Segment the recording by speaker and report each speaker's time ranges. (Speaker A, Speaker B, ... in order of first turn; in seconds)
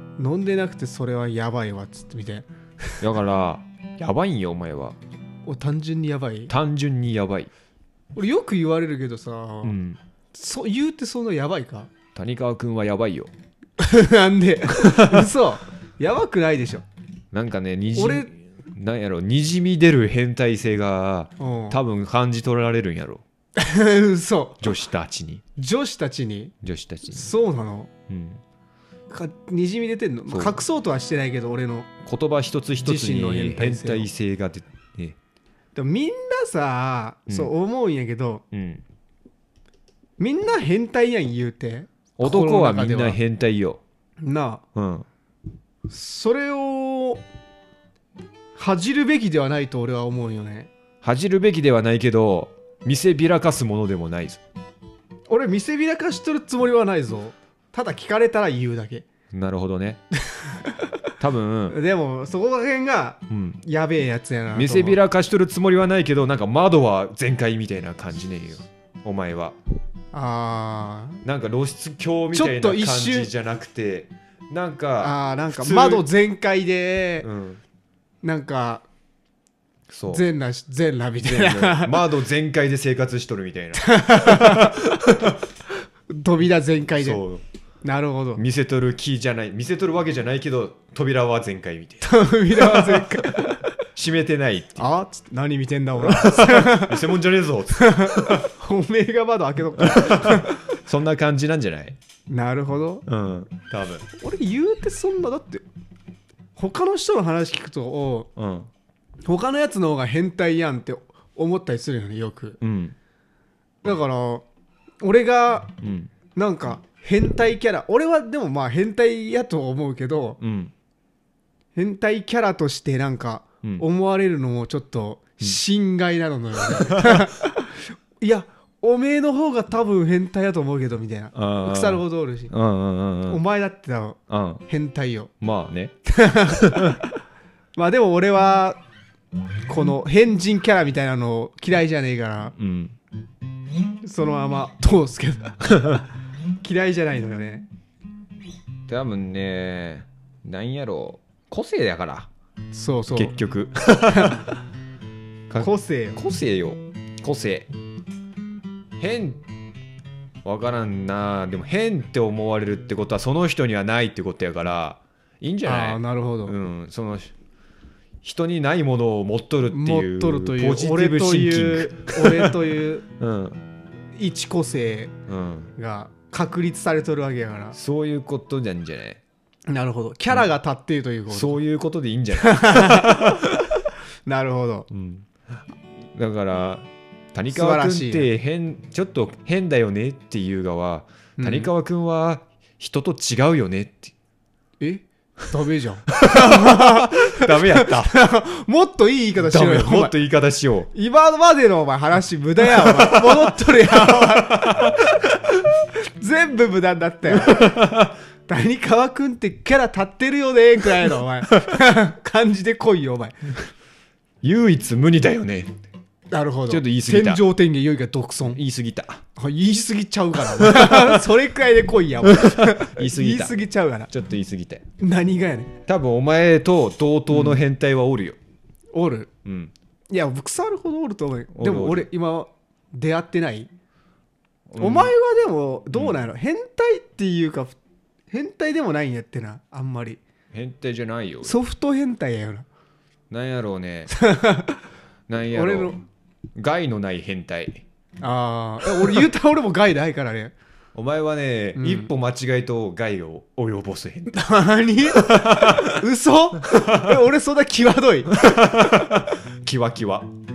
Speaker A: 0.2-3.0, 5.5-6.5, 8.1-9.8, 10.3-11.9, 13.8-16.8, 17.9-18.3, 21.4-21.8, 23.6-24.6, 25.6-26.5, 27.1-27.9, 29.1-31.9, 32.8-34.1, 35.7-38.4, 40.2-43.2, 44.2-44.6, 45.9-47.2, 48.5-50.7, 55.3-59.0, 60.3-60.9, 61.7-65.0, 70.1-71.2, 72.3-73.3, 75.0-77.3, 78.2-78.8, 80.1-82.1, 83.7-85.3, 86.1-87.2, 87.8-88.4, 92.0-93.8, 94.8-97.1, 97.7-100.7, 102.3-103.0, 104.2-105.6, 106.5-108.3, 109.2-112.6, 113.8-114.5, 115.0-115.7, 116.3-120.4, 121.7-132.5, 133.3-135.3, 136.1-137.1, 137.8-138.8, 139.7-142.5, 144.0-146.0, 146.6-147.7, 152.7-153.3, 154.1-154.5, 155.6-156.2, 165.6-166.5, 169.7-173.0, 174.2-175.1, 175.8-177.8, 179.7-181.6, 182.3-184.9, 187.5-188.3, 191.4-191.7, 194.8-200.1, 200.9-207.8, 208.5-213.6, 216.3-218.6, 219.3-224.1, 225.0-225.7, 227.3-227.6, 228.9-229.3, 230.1-233.7, 234.8-237.8, 238.3-240.2, 241.4-242.7, 244.1-244.8, 245.5-246.0, 248.2-250.5, 251.8-252.1, 254.3-258.5
Speaker B: 3.0-5.0, 6.5-7.5, 9.6-10.0, 12.1-13.3, 14.8-15.3, 17.3-23.2, 24.6-25.4, 26.6-27.3, 28.1-28.4, 30.3-30.6, 32.0-35.2, 38.5-38.8, 42.2-43.8, 44.7-45.1, 51.0-54.4, 59.3-60.0, 61.2-61.8, 63.3-63.6, 64.5-69.5, 71.2-76.0, 77.2-77.6, 79.9-80.2, 81.2-85.4, 87.0-87.4, 88.4-94.8, 96.0-98.5, 99.8-102.0, 103.0-104.0, 108.3-108.7, 112.6-113.0, 115.8-116.1, 120.4-120.7, 126.7-127.3, 131.3-133.4, 134.3-134.6, 135.4-135.9, 136.5-137.0, 142.6-142.9, 148.9-152.3, 153.1-154.5, 155.5-157.7, 159.0-159.4, 160.4-167.3, 168.2-172.5, 173.2-173.6, 175.3-175.7, 177.7-179.2, 181.3-183.6, 184.9-185.3, 186.1-194.1, 196.1-198.2, 199.4-200.9, 202.7-205.0, 207.3-208.1, 214.4-215.7, 216.7-217.4, 218.5-219.2, 220.4-221.2, 222.2-224.8, 225.8-228.4, 229.4-229.7, 231.5-232.1, 234.7-235.1, 240.5-241.5, 243.3-244.1, 245.3-246.0, 246.6-247.8, 250.9-254.4, 255.1-256.0, 256.6-257.1, 258.3-260.3